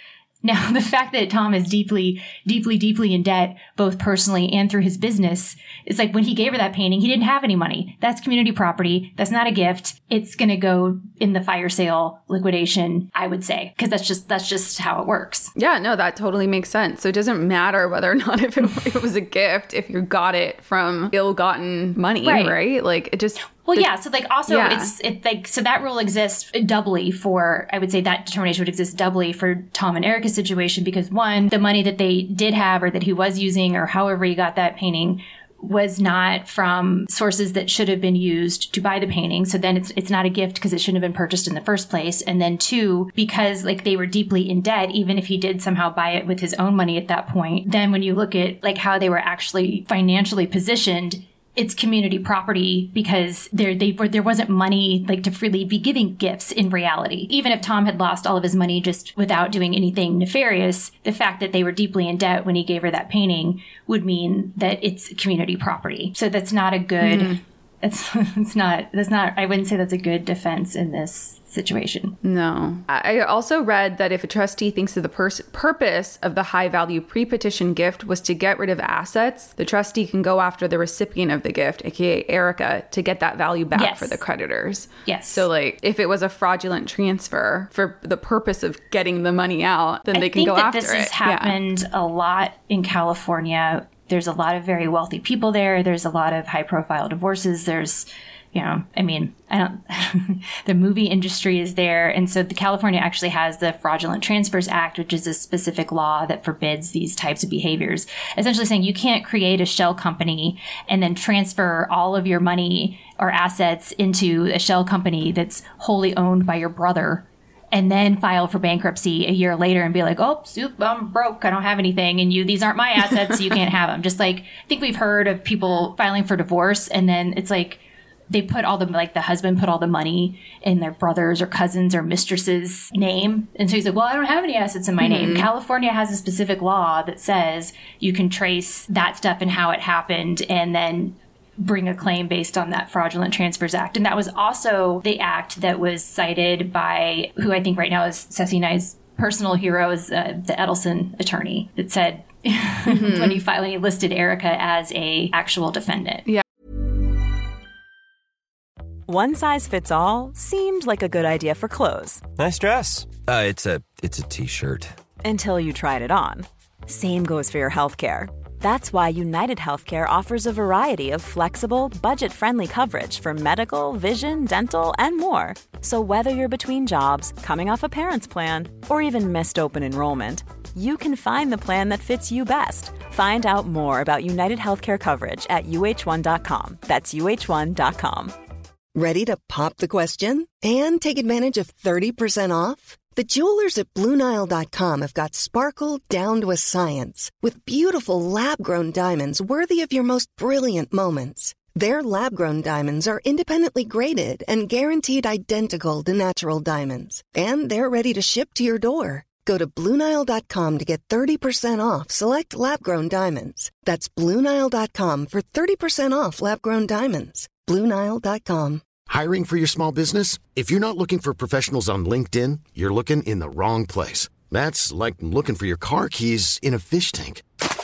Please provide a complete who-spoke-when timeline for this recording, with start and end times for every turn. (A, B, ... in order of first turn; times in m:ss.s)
0:00.4-0:15.5 A
0:15.6-0:23.9 B
0:22.2-0:22.6 A
0:23.6-1:12.2 A
0:24.5-0:24.9 B
1:07.0-1:07.4 B
1:12.2-1:31.6 B
1:23.7-1:24.2 A
1:25.0-1:25.4 A
1:30.1-2:36.2 A
2:15.0-2:15.5 B
2:32.9-2:33.4 B
2:39.1-2:42.2 C
2:42.4-2:44.9 D
2:45.2-3:08.3 C
3:08.9-3:38.8 E
3:39.1-3:47.4 F